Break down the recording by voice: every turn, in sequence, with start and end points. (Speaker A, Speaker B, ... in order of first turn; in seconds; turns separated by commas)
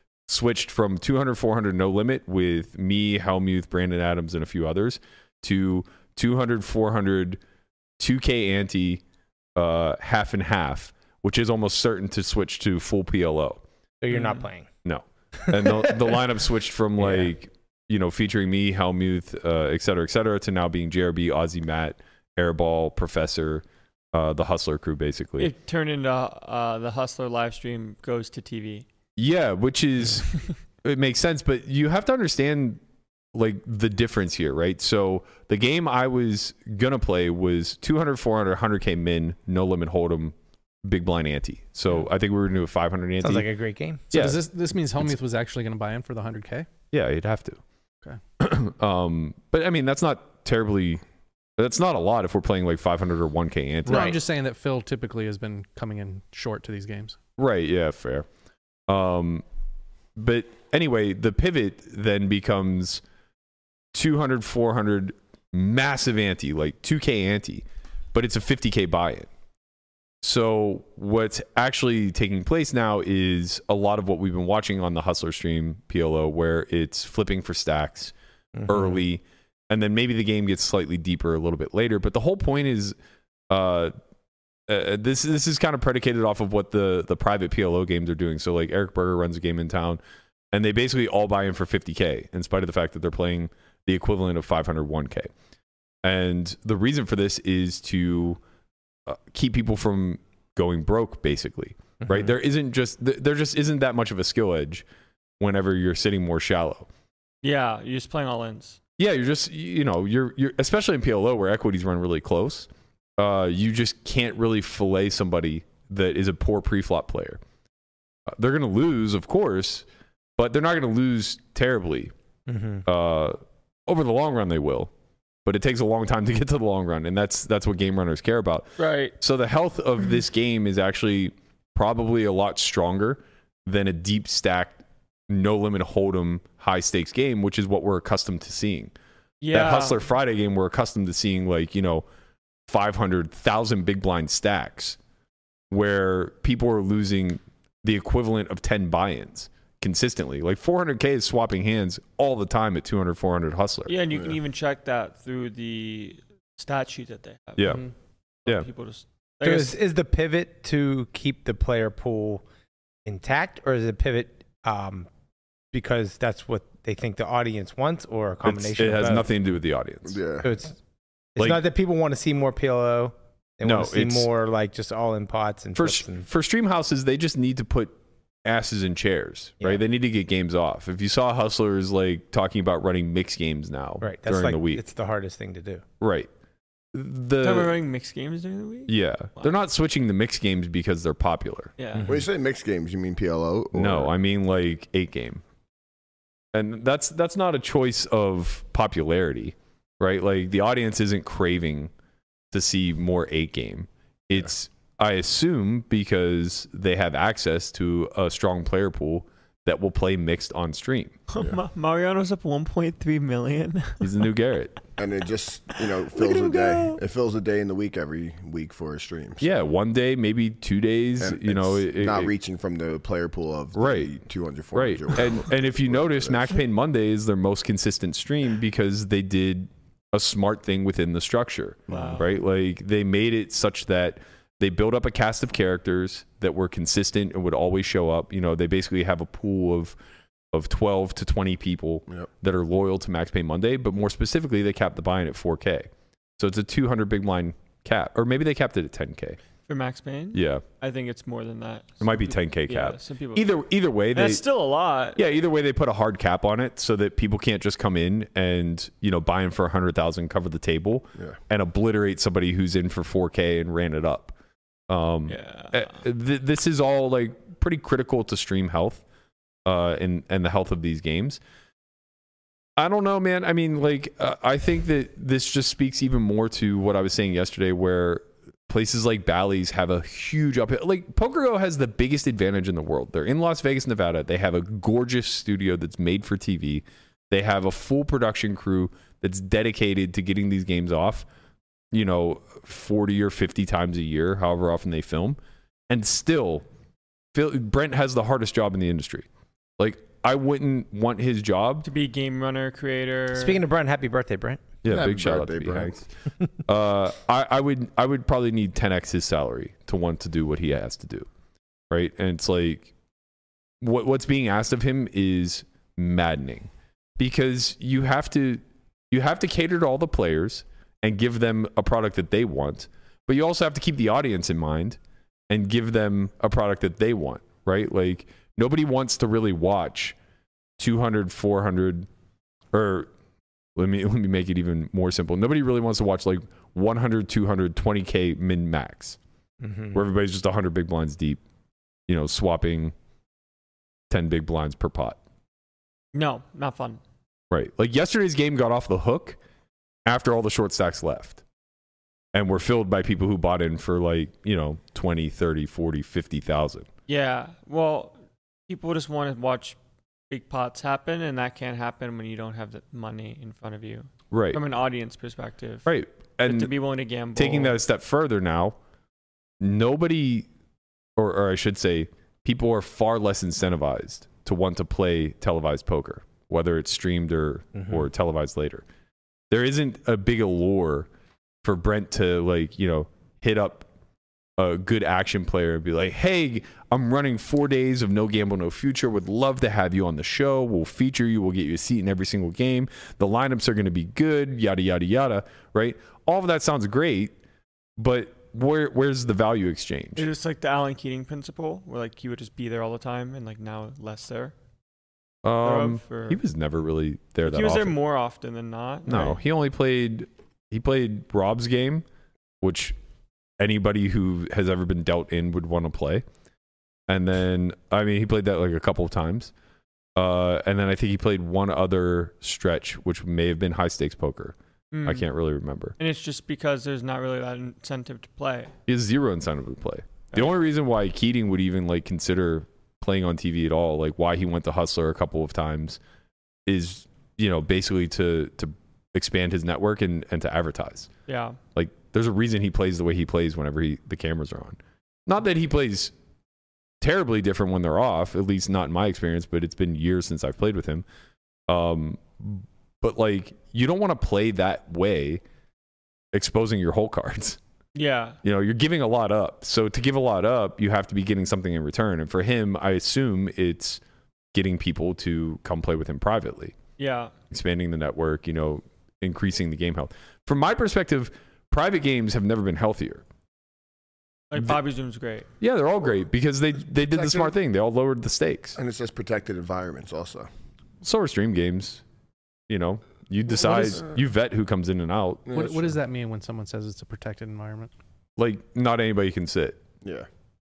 Speaker A: 0.3-7.4, Speaker A: 8.0-9.0, Speaker A: 9.6-13.6, Speaker B: 14.0-14.7, Speaker C: 14.1-14.4, Speaker A: 14.8-25.5, Speaker B: 15.5-15.9, Speaker B: 17.0-17.3, Speaker C: 25.4-28.9, Speaker A: 29.2-30.3, Speaker A: 30.8-32.8, Speaker A: 33.3-43.5, Speaker B: 43.2-44.1, Speaker D: 44.1-46.7, Speaker A: 44.1-44.5, Speaker A: 46.9-47.6, Speaker A: 48.4-51.0, Speaker A: 51.6-54.2, Speaker D: 53.9-57.2, Speaker B: 53.9-54.1, Speaker A: 57.4-58.3, Speaker A: 58.9-59.4, Speaker A: 60.2-63.0, Speaker A: 63.9-69.3, Speaker A: 70.2-78.1, Speaker B: 78.5-79.0, Speaker A: 78.7-83.0, Speaker A: 83.5-83.9, Speaker A: 84.7-90.0, Speaker A: 90.5-95.3, Speaker A: 96.0-98.4, Speaker A: 99.1-104.9, Speaker B: 102.0-102.3, Speaker A: 105.4-106.9, Speaker C: 107.4-108.8, Speaker A: 109.0-117.4, Speaker A: 118.3-119.8, Speaker A: 120.4-122.1, Speaker B: 122.5-122.8, Speaker A: 122.9-124.9, Speaker A: 125.5-128.7, Speaker C: 128.8-129.1, Speaker A: 129.2-138.9, Speaker C: 139.4-140.0, Speaker A: 139.5-142.1, Speaker A: 142.7-145.0, Speaker A: 145.7-154.0, Speaker C: 153.9-157.9, Speaker A: 157.6-157.8, Speaker C: 158.4-159.8, Speaker B: 159.4-162.4, Speaker B: 163.1-165.1, Speaker B: 165.7-169.3, Speaker A: 168.4-170.2, Speaker E: 170.1-170.5, Speaker B: 170.4-170.8, Speaker B: 171.4-176.3, Speaker A: 173.6-174.3, Speaker A: 175.8-184.8, Speaker B: 184.0-185.8, Speaker A: 186.0-186.3, Speaker A: 186.9-187.8, Speaker C: 187.4-189.5, Speaker A: 188.9-191.7, Speaker C: 191.8-192.1, Speaker B: 192.0-192.2, Speaker E: 192.1-194.1, Speaker A: 193.7-195.4, Speaker A: 196.5-201.9, Speaker A: 202.5-211.2, Speaker C: 211.3-214.1, Speaker A: 214.0-214.8, Speaker E: 215.0-219.5, Speaker C: 216.1-217.0, Speaker A: 219.4-222.3, Speaker E: 221.2-226.6, Speaker A: 223.8-224.1, Speaker A: 224.7-240.0, Speaker E: 231.9-232.2, Speaker C: 231.9-232.3, Speaker A: 240.5-249.4, Speaker C: 249.7-253.5, Speaker A: 250.3-250.6, Speaker A: 252.0-254.4, Speaker C: 254.1-255.2, Speaker A: 255.2-264.4, Speaker A: 264.9-269.0, Speaker C: 265.3-265.9, Speaker A: 269.6-271.4, Speaker A: 272.8-291.3, Speaker A: 291.9-295.4, Speaker A: 295.9-296.6, Speaker A: 297.3-299.3, Speaker A: 299.8-301.9, Speaker C: 301.8-303.6, Speaker B: 303.3-304.6, Speaker A: 304.8-306.1, Speaker E: 304.9-305.9, Speaker A: 306.7-311.3, Speaker A: 311.9-312.9, Speaker A: 313.8-325.0, Speaker A: 325.5-330.2, Speaker A: 330.8-332.1, Speaker A: 332.7-333.1, Speaker A: 333.8-339.2, Speaker B: 339.6-340.0, Speaker A: 339.9-341.4, Speaker A: 342.1-342.9, Speaker A: 344.1-345.2, Speaker C: 346.1-347.0, Speaker A: 347.5-349.4, Speaker A: 350.1-351.4, Speaker A: 352.3-356.9, Speaker C: 357.1-359.8, Speaker C: 360.3-365.9, Speaker A: 364.3-364.6, Speaker A: 365.9-366.7, Speaker C: 366.4-367.8, Speaker A: 367.4-368.8, Speaker A: 369.6-370.5, Speaker A: 371.2-378.9, Speaker A: 379.5-381.1, Speaker A: 381.6-383.9, Speaker A: 384.6-397.4, Speaker A: 398.0-400.3, Speaker C: 400.2-404.5, Speaker A: 405.4-408.0, Speaker C: 405.6-406.4, Speaker C: 407.4-409.4, Speaker A: 409.1-412.1, Speaker A: 412.6-413.0, Speaker A: 413.6-416.2, Speaker A: 417.1-419.5, Speaker A: 420.2-426.0, Speaker C: 424.9-425.2, Speaker C: 426.0-428.7, Speaker A: 428.9-436.0, Speaker A: 436.7-441.1, Speaker C: 441.3-441.6, Speaker A: 441.8-446.1, Speaker A: 447.0-451.1, Speaker A: 451.7-455.4, Speaker A: 456.3-457.6, Speaker C: 457.9-458.4, Speaker A: 458.4-464.0, Speaker A: 464.5-466.8, Speaker C: 467.0-467.3, Speaker A: 467.5-473.2, Speaker C: 474.5-475.5, Speaker A: 475.6-478.8, Speaker E: 477.1-477.5, Speaker E: 478.8-480.5, Speaker A: 481.0-482.0, Speaker A: 482.7-485.5, Speaker E: 483.6-484.2, Speaker E: 485.5-485.9, Speaker D: 485.5-487.9, Speaker A: 488.4-489.8